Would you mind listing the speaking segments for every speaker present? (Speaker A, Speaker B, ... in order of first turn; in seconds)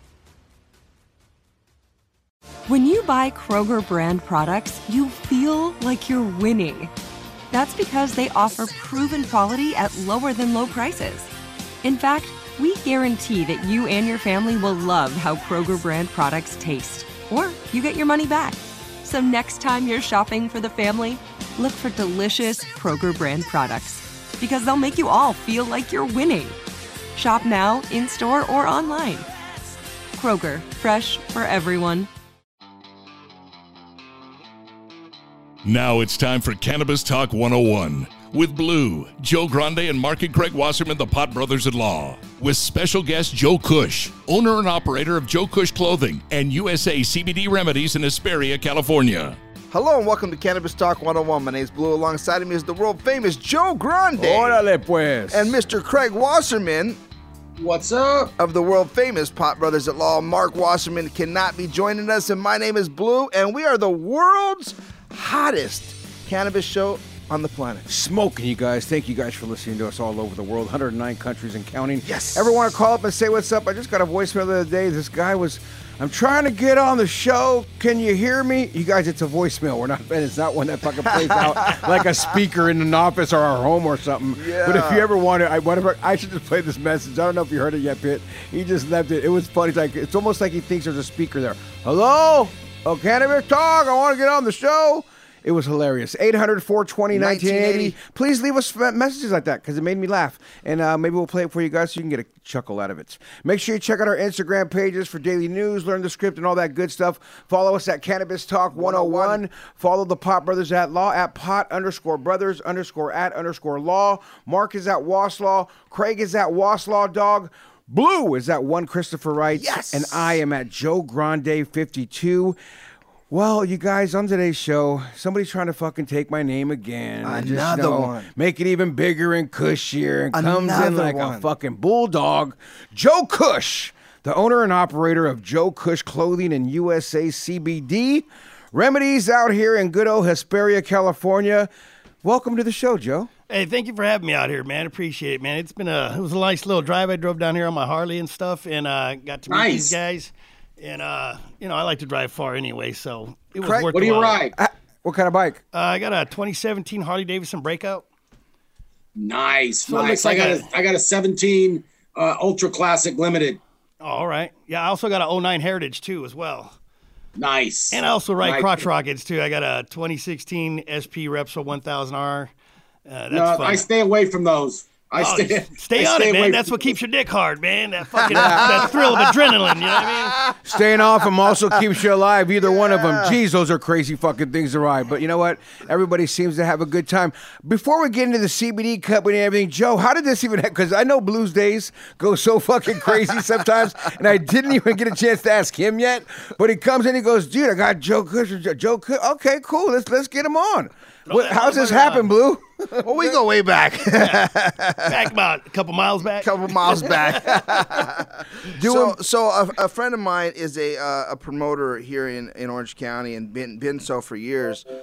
Speaker A: 2.7-6.9, 7.5-11.3, 11.8-26.6, 27.1-29.3, 30.1-32.1
Speaker B: 35.6-49.4
Speaker C: 49.7-54.6, 55.3-57.0, 58.4-67.9, 72.0-72.5, 81.1-82.0, 84.4-85.0, 97.1-98.0, 108.7-109.4, 119.5-120.4, 127.2-128.3, 130.3-131.4, 153.6-153.9, 178.2-180.7, 182.7-183.4, 203.0-205.2, 206.4-214.9
Speaker D: 54.2-55.6, 67.9-122.6, 123.3-141.7, 142.2-143.3, 154.6-155.6, 178.3-178.9, 180.6-203.3, 208.7-209.2
Speaker E: 57.6-58.3, 149.5-150.0, 153.9-154.6, 159.2-163.6, 167.4-168.8, 173.3-177.0
Speaker F: 143.5-154.5, 155.7-158.1, 159.9-160.7, 164.0-166.8, 167.9-172.5, 173.1-173.9, 175.2-180.4, 201.3-202.3, 205.1-207.6